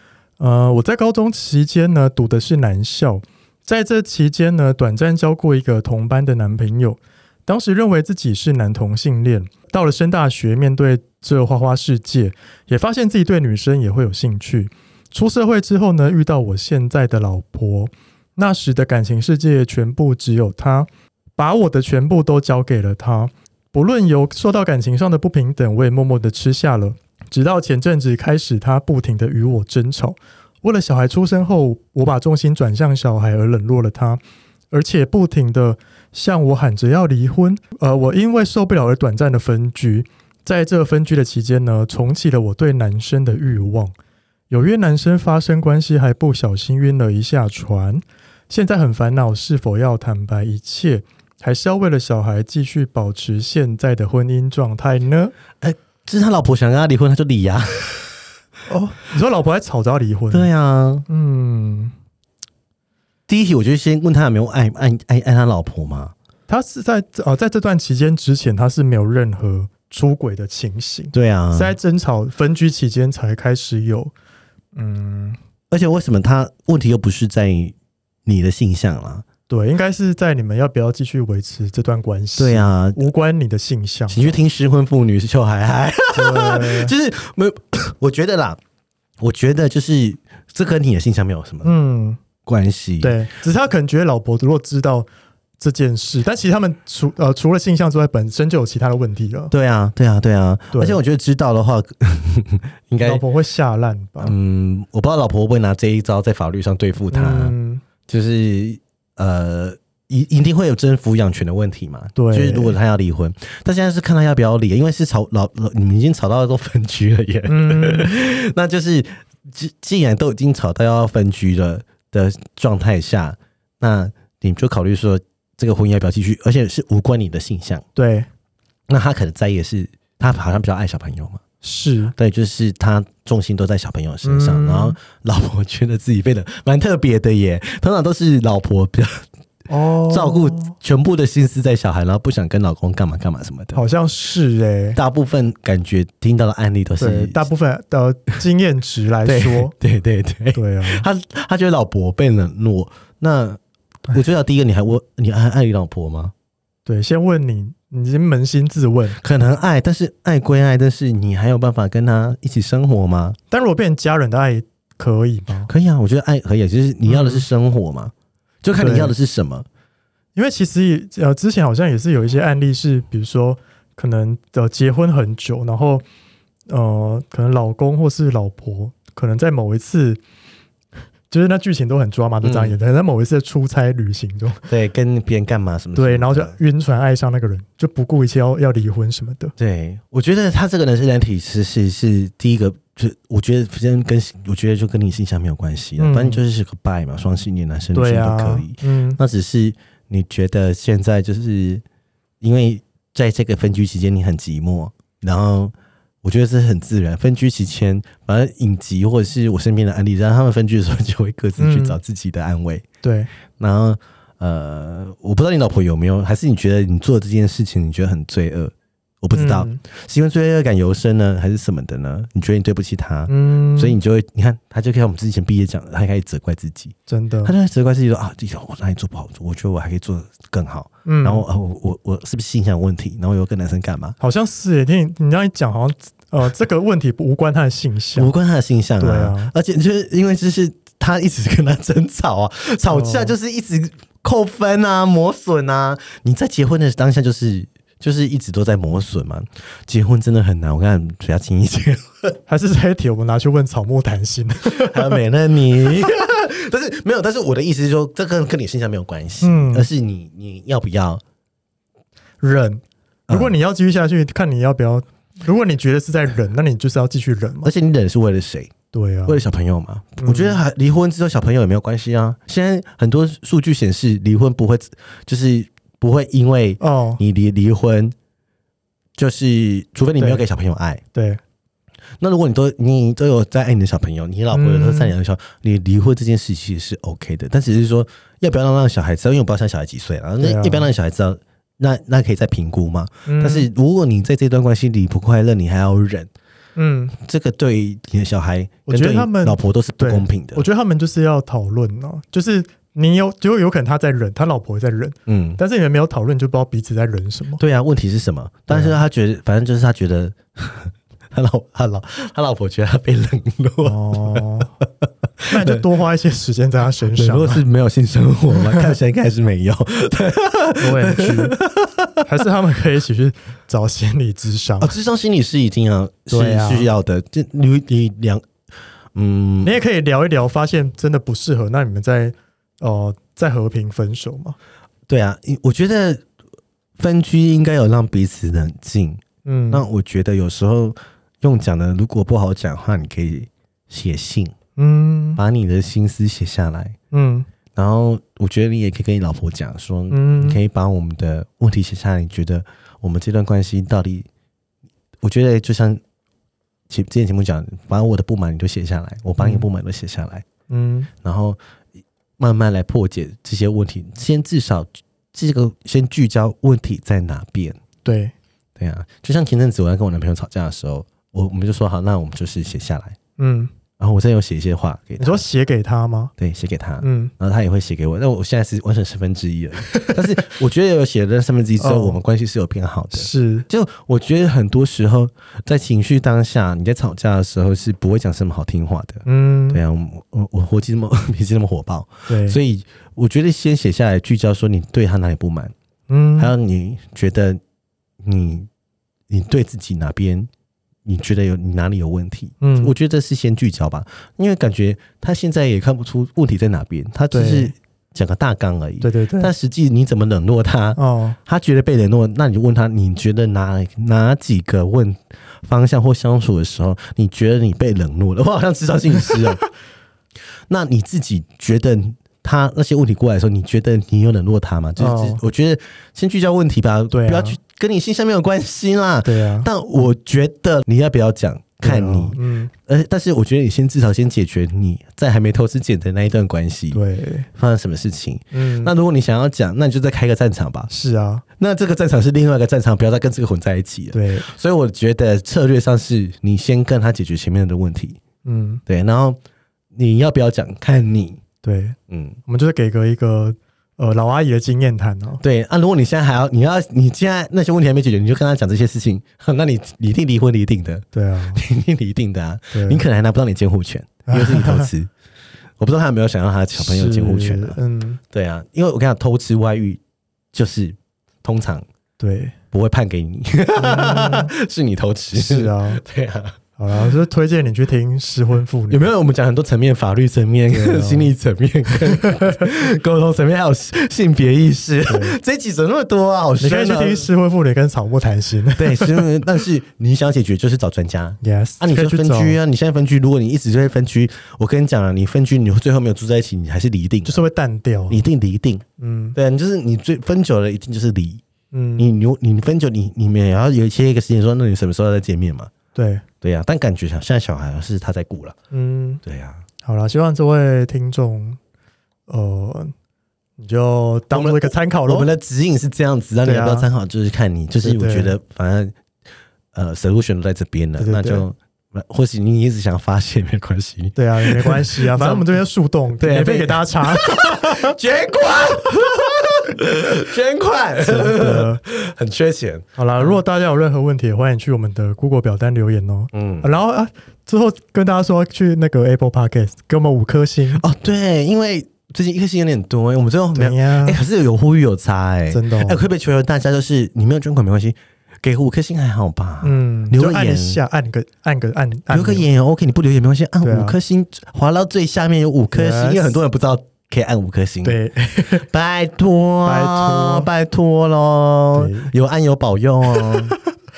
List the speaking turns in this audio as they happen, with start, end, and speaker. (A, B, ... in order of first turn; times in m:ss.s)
0:00.4-0:43.9 A
0:44.5-0:55.3 A
0:55.6-0:58.2 B
0:58.7-1:00.5 A
1:00.3-1:01.1 B
1:01.1-1:01.9 A
1:03.3-1:06.1 B
1:06.5-1:14.1 A
1:11.1-1:11.8 B
1:14.8-1:15.4 A
1:15.7-1:17.7 B
1:18.3-1:19.2 B
1:19.5-1:24.4 A
1:22.4-1:23.0 B
1:24.1-1:28.6 B
1:26.1-1:26.9 A
1:29.2-1:31.7 B
1:31.6-1:32.2 A
1:32.4-1:33.2 B
1:33.0-1:35.1 A
1:35.6-1:39.5 A
1:39.5-1:43.2 B
1:40.7-1:41.0 A
1:43.0-1:44.4 A
1:44.2-1:47.6 B
1:47.1-1:47.8 A
1:48.1-2:07.8 B
1:52.2-1:52.8 A
1:57.5-1:58.2 A
2:08.0-2:08.3 A
2:08.9-2:11.4 B
2:11.6-2:12.1 A
2:12.2-2:19.3 B
2:14.2-2:15.0 A
2:19.7-2:20.7 A
2:20.0-2:23.8 B
2:23.7-2:25.0 A
2:25.0-2:27.4 B
2:27.0-2:29.7 A
2:29.3-2:36.3 B
2:30.6-2:31.1 A
2:36.9-2:39.2 A
2:39.2-2:43.4 B
2:43.5-2:45.7 A
2:45.7-2:49.7 B
2:47.0-2:47.4 A
2:48.8-2:49.2 A
2:50.4-2:56.0 A
2:56.7-3:00.2 A
3:01.3-3:04.7 A
3:02.4-3:02.7 B
3:04.7-3:06.6 B
3:06.0-3:09.6 A
3:09.6-3:21.8 B
3:16.0-3:16.4 A
3:17.9-3:19.2 A
3:22.4-3:32.8 B
3:31.6-3:32.0 A
3:33.0-3:33.3 A
3:33.6-3:54.2 B
3:39.3-3:39.8 A
3:43.3-3:44.0 A
3:47.1-3:47.6 A
3:51.0-3:51.5 A
3:54.2-3:58.3 A
3:58.2-4:12.3 B
3:59.0-3:59.5 A
4:02.9-4:03.3 A
4:12.5-4:15.2 A
4:14.7-4:21.2 B
4:19.4-4:19.9 A
4:22.4-4:27.7 A
4:23.3-4:23.6 B
4:27.6-4:28.7 B
4:28.9-4:29.4 A
4:29.3-4:38.2 B
4:30.2-4:30.6 A
4:36.8-4:37.2 A
4:39.2-4:41.0 B
4:40.2-4:40.4 A
4:41.1-4:41.4 A
4:42.2-4:56.3 B
4:44.5-4:45.1 A
4:50.4-4:50.9 A
4:53.3-4:53.7 A
4:56.8-4:57.2 A
4:57.2-5:00.7 B
4:58.9-5:07.6 A
5:05.3-5:05.6 B
5:07.6-5:14.9 B
5:08.7-5:09.0 A
5:13.8-5:14.7 A
5:15.4-5:15.8 B
5:15.5-5:17.6 A
5:17.1-5:22.2 B
5:20.8-5:21.6 A
5:22.2-5:25.0 A
5:24.8-5:28.4 B
5:26.3-5:26.9 A
5:29.2-5:29.8 B
5:29.6-5:34.6 A
5:35.1-5:36.2 B
5:37.0-5:44.6 B
5:39.4-5:39.9 A
5:44.8-5:45.4 A
5:45.4-5:47.0 B
5:47.1-5:47.5 A
5:47.7-5:54.3 B
5:50.1-5:50.6 A
5:55.2-5:56.0 B
5:56.9-6:00.4 B
5:59.4-5:59.7 A
6:00.7-6:01.1 A
6:01.2-6:01.6 B
6:02.4-6:07.8 B
6:08.0-6:08.3 A
6:08.8-6:13.2 B
6:13.4-6:13.7 A
6:14.0-6:15.4 B
6:15.2-6:16.3 A
6:16.4-6:35.7 B
6:17.0-6:17.3 A
6:21.8-6:22.2 A
6:23.1-6:23.7 A
6:29.3-6:29.8 A
6:32.3-6:32.6 A
6:36.1-6:36.5 A
6:36.4-6:37.6 B
6:38.2-6:38.7 B
6:39.3-6:40.5 B
6:41.0-6:59.6 B
6:42.6-6:42.9 A
6:47.3-6:47.7 A
6:49.0-6:49.5 A
6:51.0-6:51.4 A
7:00.7-7:17.0 B
7:05.0-7:05.4 A
7:07.1-7:07.6 A
7:09.2-7:09.7 A
7:11.8-7:12.7 A
7:16.9-7:17.5 A
7:17.6-7:20.9 B
7:18.5-7:18.9 A
7:20.9-7:21.4 A
7:21.6-7:28.2 B
7:24.1-7:24.5 A
7:28.4-7:28.8 A
7:28.9-7:29.4 B
7:29.9-7:31.4 B
7:31.6-7:35.4 A
7:32.1-7:32.4 B
7:35.4-7:45.1 B
7:41.1-7:41.6 A
7:42.7-7:43.0 A
7:44.3-7:44.9 A
7:45.8-7:47.8 B
7:46.7-7:48.2 A
7:48.3-7:50.0 B
7:50.5-7:51.8 B
7:52.2-7:52.6 A
7:52.7-7:56.6 B
7:53.8-7:54.5 A
7:55.3-7:56.0 A
7:56.8-7:59.0 A
7:58.9-8:07.3 B
8:00.7-8:01.3 A
8:05.1-8:05.4 A
8:06.6-8:09.3 A
8:08.8-8:17.4 B
8:11.4-8:12.6 A
8:17.2-8:18.2 A
8:18.1-8:18.8 B
8:19.0-8:19.4 A
8:19.4-8:21.4 B
8:21.7-8:22.1 A
8:22.0-8:25.7 B
8:26.0-8:26.2 A
8:26.4-8:28.6 B
8:28.7-8:29.2 A
8:29.2-8:29.6 B
8:29.8-8:31.6 A
8:32.3-8:32.9 A
8:33.6-8:35.3 A
8:34.3-8:39.0 B
8:36.4-8:36.9 A
8:37.8-8:38.3 A
8:39.7-8:45.6 B
8:41.0-8:41.5 A
8:44.2-8:48.0 A
8:46.2-8:53.4 B
8:51.0-8:51.8 A
8:53.0-9:00.8 A
8:56.3-8:56.7 B
9:00.8-9:10.8 B
9:03.6-9:04.2 A
9:05.5-9:06.0 A
9:09.6-9:12.5 A
9:12.1-9:23.6 B
9:13.6-9:14.0 A
9:15.7-9:16.4 A
9:17.8-9:18.7 A
9:19.6-9:20.5 A
9:21.8-9:22.1 A
9:23.2-9:23.6 A